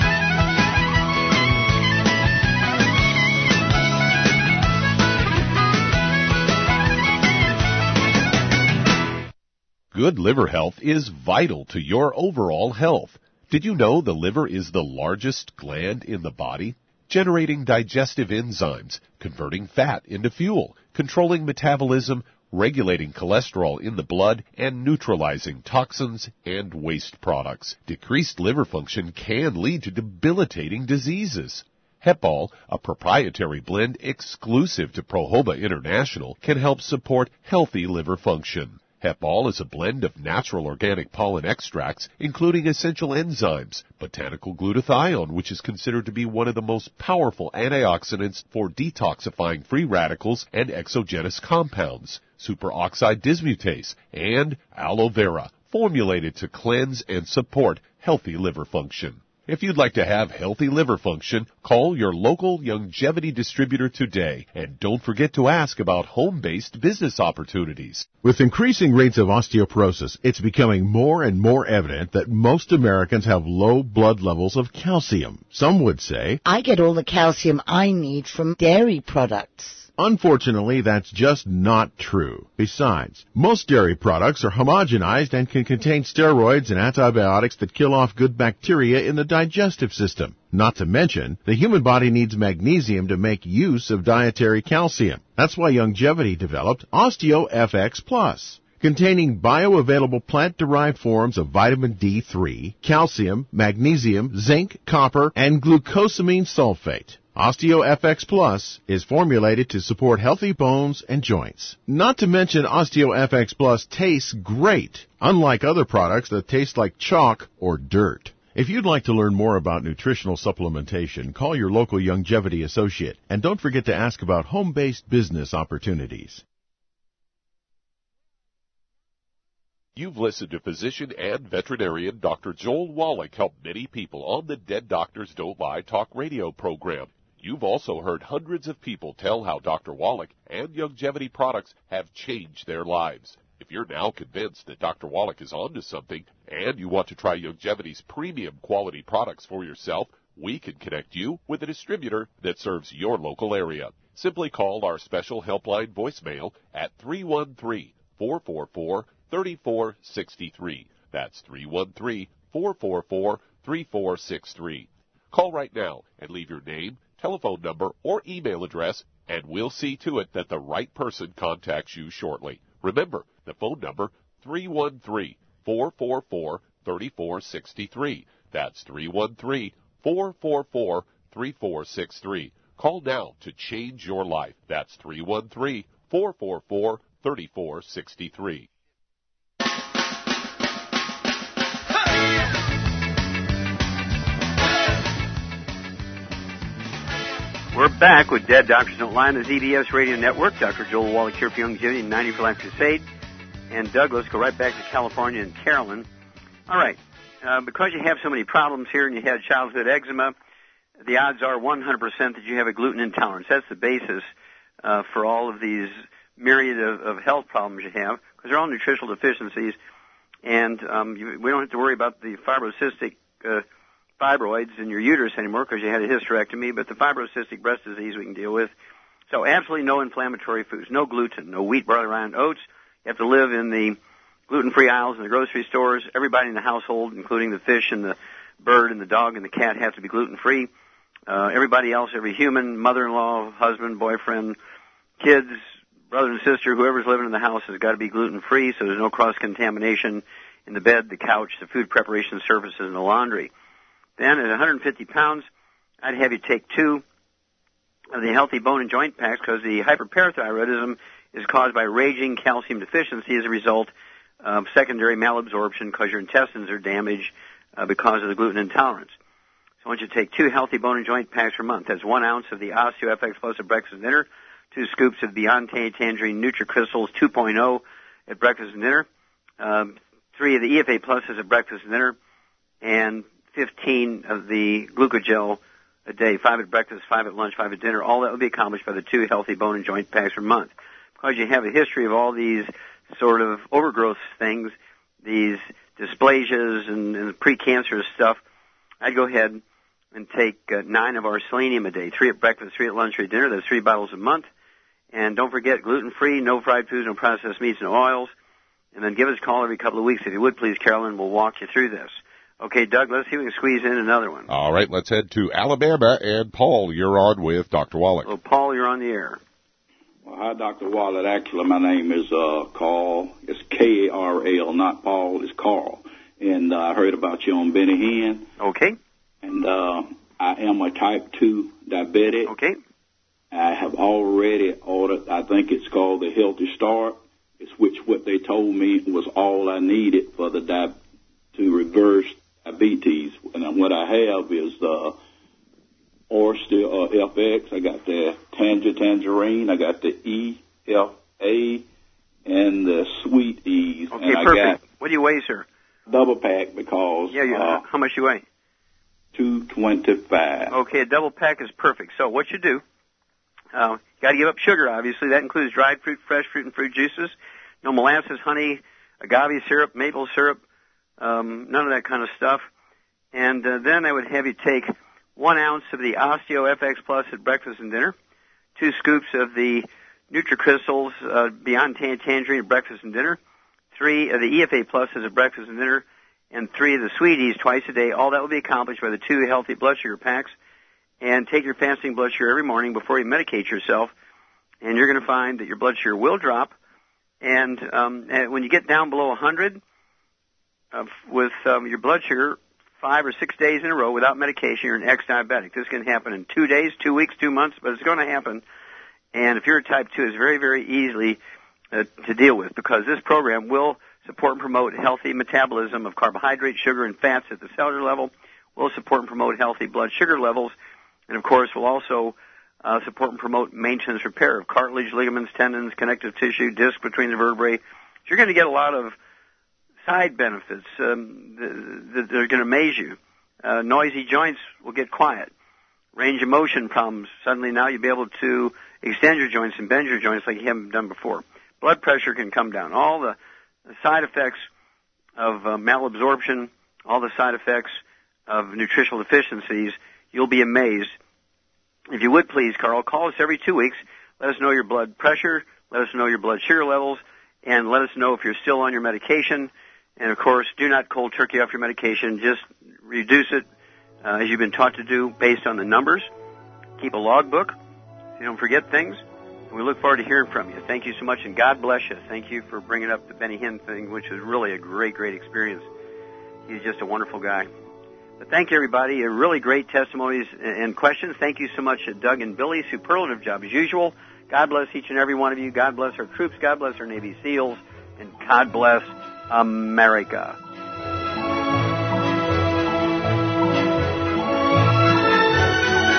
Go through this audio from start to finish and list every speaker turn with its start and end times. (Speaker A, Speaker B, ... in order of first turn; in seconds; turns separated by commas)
Speaker A: 9.9-68.1, Speaker B: 68.2-76.4, Speaker C: 76.5-79.9, Speaker B: 80.0-126.4, Speaker A: 129.9-188.7, Speaker D: 197.7-203.0, Speaker D: 203.7-206.1, Speaker D: 206.7-210.3, Speaker D: 211.0-214.3, Speaker D: 214.8-219.8, Speaker D: 220.4-223.6, Speaker D: 224.2-228.7, Speaker D: 229.3-234.0, Speaker D: 234.5-240.7, Speaker D: 241.3-244.6, Speaker D: 245.2-253.5, Speaker D: 254.2-255.5, Speaker D: 256.0-257.0, Speaker D: 258.1-269.1, Speaker D: 269.8-279.1, Speaker D: 279.6-282.2, Speaker D: 282.8-298.4, Speaker D: 299.0-299.6, Speaker D: 300.1-304.4, Speaker D: 305.1-308.3, Speaker D: 308.9-314.5, Speaker A: 314.5-318.3, Speaker D: 318.2-319.4, Speaker E: 320.2-328.4, Speaker D: 328.6-328.9, Speaker E: 329.4-332.5, Speaker D: 332.5-332.8, Speaker E: 333.5-341.0, Speaker E: 341.5-345.2, Speaker E: 346.3-351.9, Speaker E: 352.4-354.8, Speaker D: 354.1-355.7, Speaker E: 356.1-357.9, Speaker D: 357.3-358.4, Speaker E: 359.3-360.8, Speaker D: 360.7-362.8, Speaker D: 363.7-370.6, Speaker D: 371.2-372.7, Speaker D: 373.3-378.1, Speaker D: 378.8-383.4, Speaker D: 383.9-390.5, Speaker D: 391.2-394.1, Speaker D: 394.8-396.7, Speaker D: 397.4-399.8, Speaker D: 400.9-408.6, Speaker D: 409.3-411.4, Speaker D: 411.9-420.7, Speaker D: 421.3-429.1, Speaker D: 430.1-435.5, Speaker D: 436.2-443.4, Speaker D: 443.9-444.7, Speaker D: 445.4-451.1, Speaker D: 452.1-463.6, Speaker D: 464.2-466.3, Speaker D: 467.0-467.8, Speaker D: 468.4-475.9, Speaker D: 476.7-477.7, Speaker D: 478.4-490.6